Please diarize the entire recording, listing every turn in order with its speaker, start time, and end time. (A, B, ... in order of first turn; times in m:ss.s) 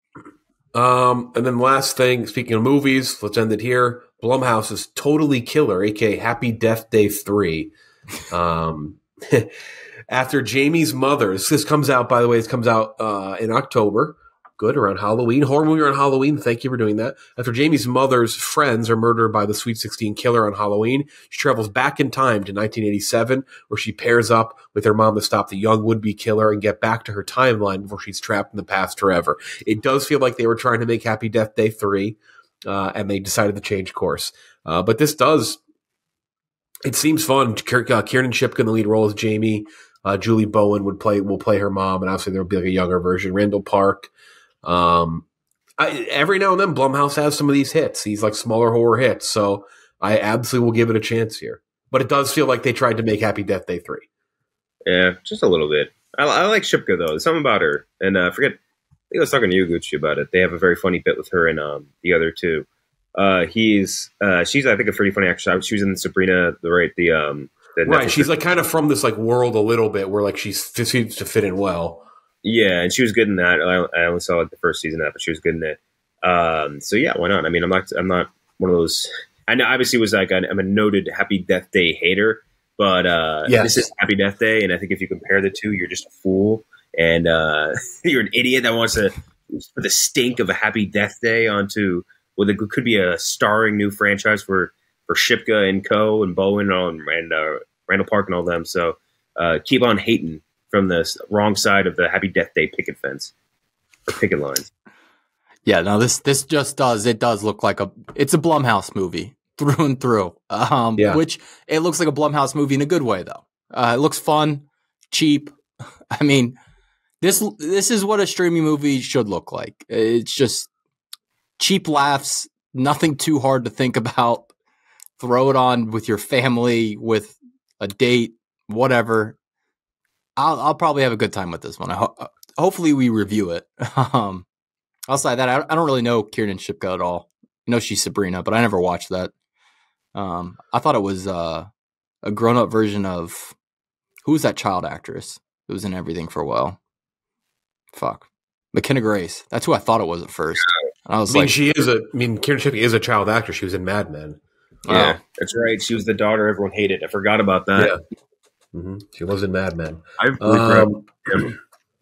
0:00.7-0:07.7 A
0:08.3-0:09.5 A
0:10.1-0:35.6 A
0:36.9-0:44.1 A
0:44.6-0:45.3 A
0:45.8-0:54.1 A
0:54.9-0:58.6 B
0:59.1-1:08.3 B
1:07.8-1:12.1 A
1:12.4-1:43.3 B
1:23.5-1:23.8 A
1:44.1-1:44.7 B
1:45.7-1:55.6 C
1:51.0-1:51.2 A
1:56.2-1:56.5 C
1:57.2-2:00.7 C
2:01.6-2:04.5 C
2:05.2-2:09.4 C
2:10.4-2:14.5 C
2:15.1-2:19.3 C
2:20.2-2:21.7 C
2:22.2-2:23.6 C
2:24.2-2:26.8 C
2:27.9-2:31.5 C
2:31.3-2:34.4 A
2:34.9-2:35.2 C
2:34.9-2:37.9 B
2:38.7-2:41.1 A
2:40.2-2:41.5 B